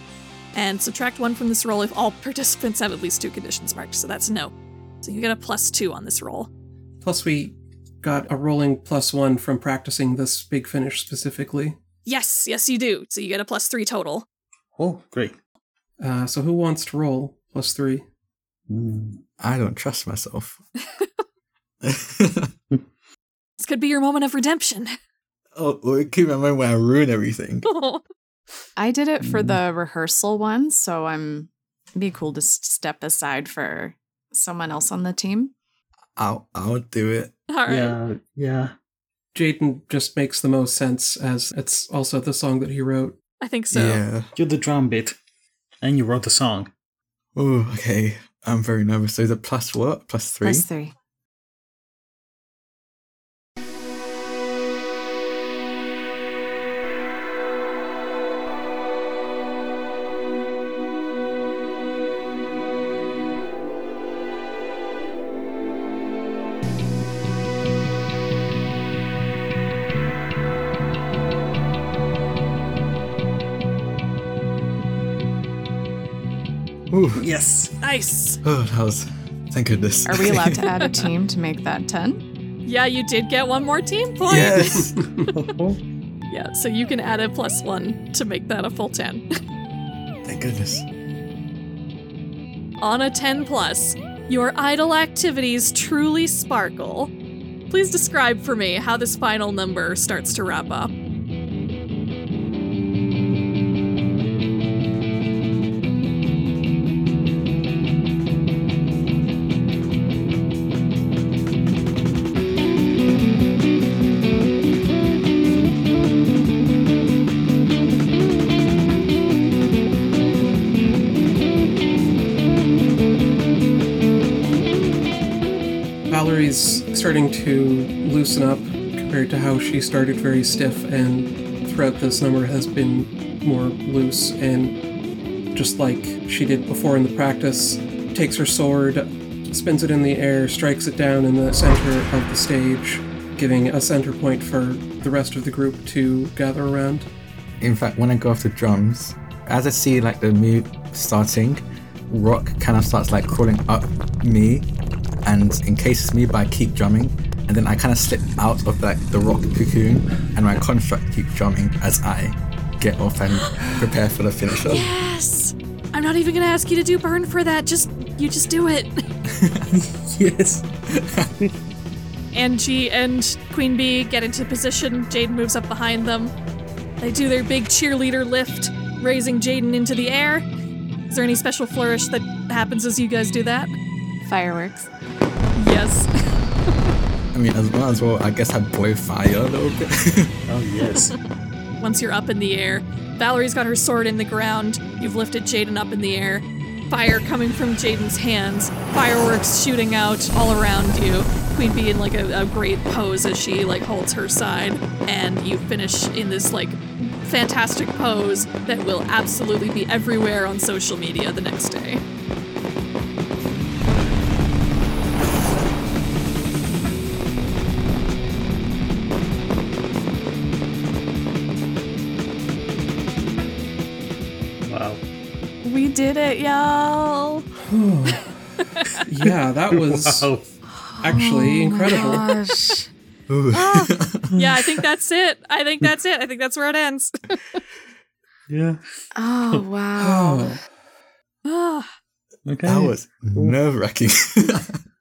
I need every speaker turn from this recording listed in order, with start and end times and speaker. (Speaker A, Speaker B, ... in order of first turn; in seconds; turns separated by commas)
Speaker A: 0.5-6.5, Speaker B: 7.0-11.8, Speaker A: 12.1-14.2, Speaker C: 14.8-15.3, Speaker B: 16.0-18.0, Speaker C: 18.7-19.2, Speaker D: 19.4-20.6, Speaker D: 21.8-22.5, Speaker A: 23.6-24.9, Speaker D: 25.5-27.7, Speaker A: 27.6-28.0, Speaker E: 28.8-35.5, Speaker C: 29.2-29.6, Speaker D: 36.2-37.3, Speaker A: 37.5-38.0, Speaker C: 37.7-38.7, Speaker B: 39.3-43.2, Speaker A: 43.4-44.0, Speaker D: 43.7-44.3, Speaker C: 44.4-45.2, Speaker C: 45.8-46.7, Speaker D: 47.3-50.6, Speaker E: 50.4-50.9, Speaker D: 76.9-77.2, Speaker C: 77.2-77.7, Speaker A: 77.8-78.4, Speaker D: 78.4-80.8, Speaker E: 80.0-82.2, Speaker A: 82.7-85.0, Speaker D: 84.3-84.9, Speaker C: 85.2-85.8, Speaker A: 86.3-89.2, Speaker D: 90.2-90.8, Speaker A: 92.8-97.1, Speaker A: 97.7-100.9, Speaker B: 126.1-134.8, Speaker B: 135.5-147.1, Speaker D: 147.6-154.7, Speaker D: 155.2-164.9, Speaker A: 164.7-169.0, Speaker D: 169.2-169.8, Speaker C: 169.7-170.6, Speaker D: 170.9-171.3, Speaker A: 172.3-176.3, Speaker A: 177.0-180.5, Speaker A: 181.1-183.7, Speaker E: 184.2-184.9, Speaker A: 185.6-186.3, Speaker D: 187.3-190.3, Speaker C: 190.5-191.1, Speaker A: 191.8-212.0, Speaker C: 224.6-225.0, Speaker E: 225.6-227.4, Speaker B: 227.7-228.4, Speaker A: 228.6-229.0, Speaker B: 229.0-230.3, Speaker C: 229.7-230.5, Speaker E: 230.7-232.9, Speaker B: 231.0-232.3, Speaker D: 233.3-234.3, Speaker A: 233.5-237.6, Speaker C: 238.5-238.8, Speaker E: 239.1-240.6, Speaker B: 240.0-240.6, Speaker A: 241.4-241.9, Speaker C: 242.5-243.6, Speaker D: 242.6-244.8